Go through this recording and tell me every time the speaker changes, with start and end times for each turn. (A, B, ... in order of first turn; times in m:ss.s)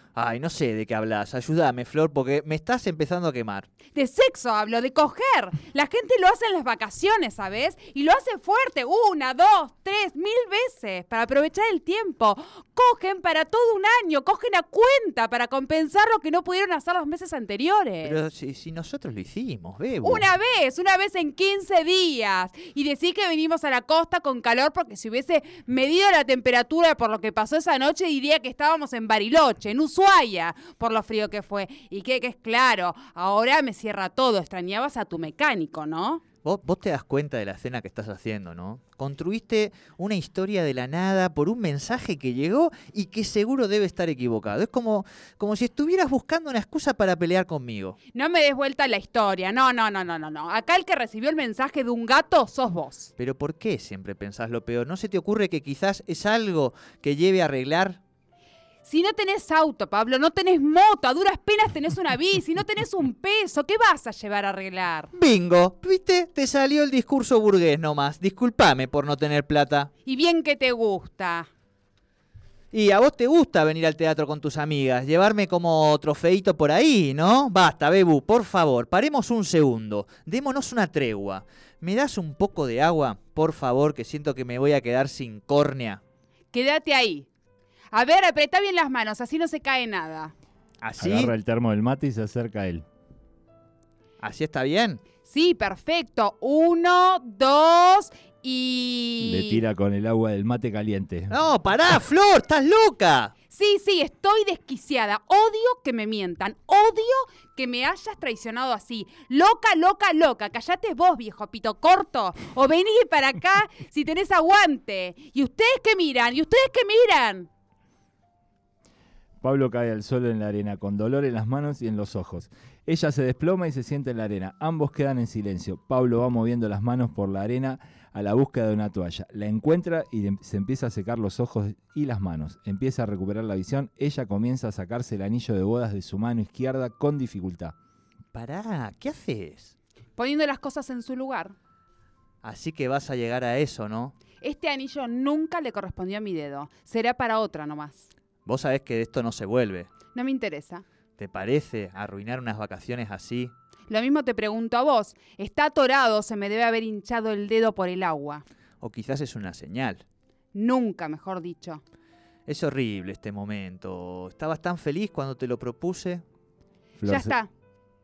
0:00.2-0:03.7 A
0:03.9-0:18.2 B
0:18.0-0:20.2 A
0:20.0-0:36.2 B
0:36.4-0:48.0 A
0:48.1-0:53.1 B
0:53.2-0:58.0 A
0:58.8-1:05.1 B
1:05.1-1:09.9 A
1:10.1-1:11.5 B
1:12.7-1:26.0 A
1:26.5-1:27.3 B
1:27.9-1:30.3 B
1:30.8-1:31.3 A
1:31.0-1:32.8 C
1:34.2-1:35.0 A
1:35.3-1:39.6 B
1:39.2-1:41.4 C
1:41.3-1:43.4 A
1:43.5-1:57.5 B
1:59.4-2:17.8 C
2:18.3-2:19.8 A
2:20.2-2:21.6 B
2:22.4-2:24.2 A
2:24.4-2:28.1 B
2:28.4-2:29.9 A
2:30.1-2:30.8 B
2:31.2-2:33.5 A
2:33.9-2:38.4 B
2:38.8-2:40.0 A
2:40.5-2:41.8 B
2:42.5-2:46.2 A
2:47.0-2:47.3 C
2:47.0-2:47.5 B